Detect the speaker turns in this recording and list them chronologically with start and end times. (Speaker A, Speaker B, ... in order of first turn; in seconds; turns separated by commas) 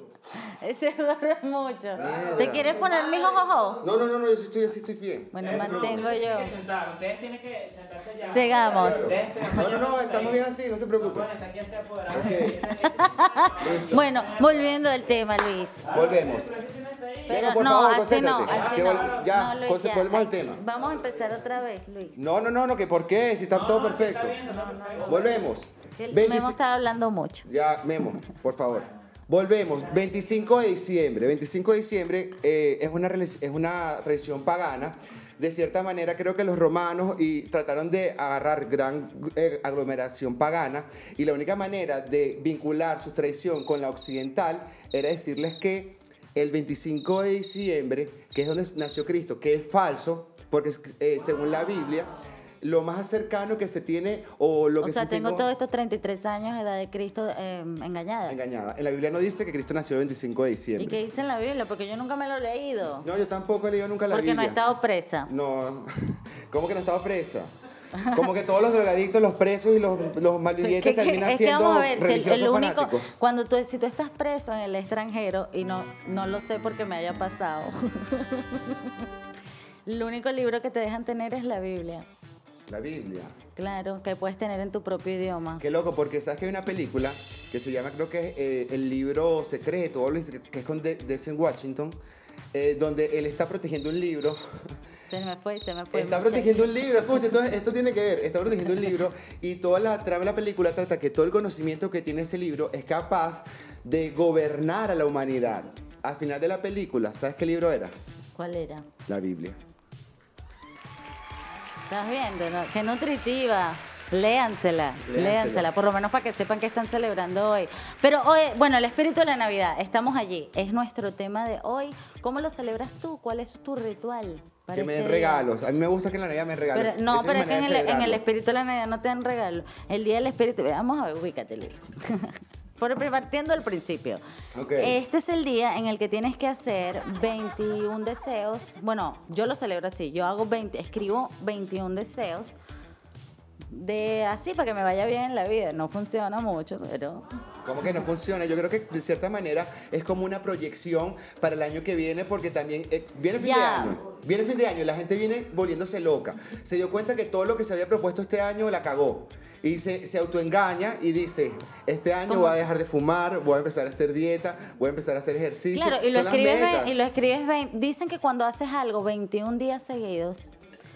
Speaker A: 0.3-3.8, Speaker B: 1.9-2.8, Speaker B: 3.8-6.1, Speaker A: 5.3-6.5, Speaker C: 5.4-10.4, Speaker A: 8.2-9.1, Speaker B: 8.7-11.3, Speaker C: 11.0-14.8, Speaker B: 12.1-12.7, Speaker A: 12.9-15.9, Speaker B: 13.6-14.0, Speaker C: 15.8-17.4, Speaker B: 15.9-16.5, Speaker B: 17.3-20.6, Speaker A: 17.3-22.2, Speaker C: 18.5-19.3, Speaker B: 22.1-24.4, Speaker C: 23.5-25.5, Speaker B: 25.0-26.6, Speaker A: 26.0-27.5, Speaker B: 27.4-52.1, Speaker B: 52.6-55.5, Speaker A: 54.8-58.4, Speaker B: 58.3-61.0, Speaker A: 60.8-63.1, Speaker B: 63.0-64.6, Speaker A: 64.1-65.3, Speaker B: 65.3-67.5, Speaker B: 68.1-73.1, Speaker A: 70.6-79.1, Speaker A: 79.8-82.1, Speaker B: 82.7-83.3, Speaker A: 83.5-85.6, Speaker B: 85.6-92.0, Speaker B: 92.5-94.4, Speaker A: 95.1-96.8, Speaker B: 95.9-107.9, Speaker A: 108.3-108.9, Speaker B: 109.1-109.6, Speaker A: 111.9-125.5, Speaker B: 115.0-115.7, Speaker B: 124.7-128.2, Speaker A: 126.7-134.2, Speaker B: 134.5-135.0, Speaker A: 134.8-142.6, Speaker A: 143.7-147.2, Speaker B: 147.6-167.0, Speaker A: 153.4-154.0, Speaker A: 162.3-162.6, Speaker A: 165.7-170.5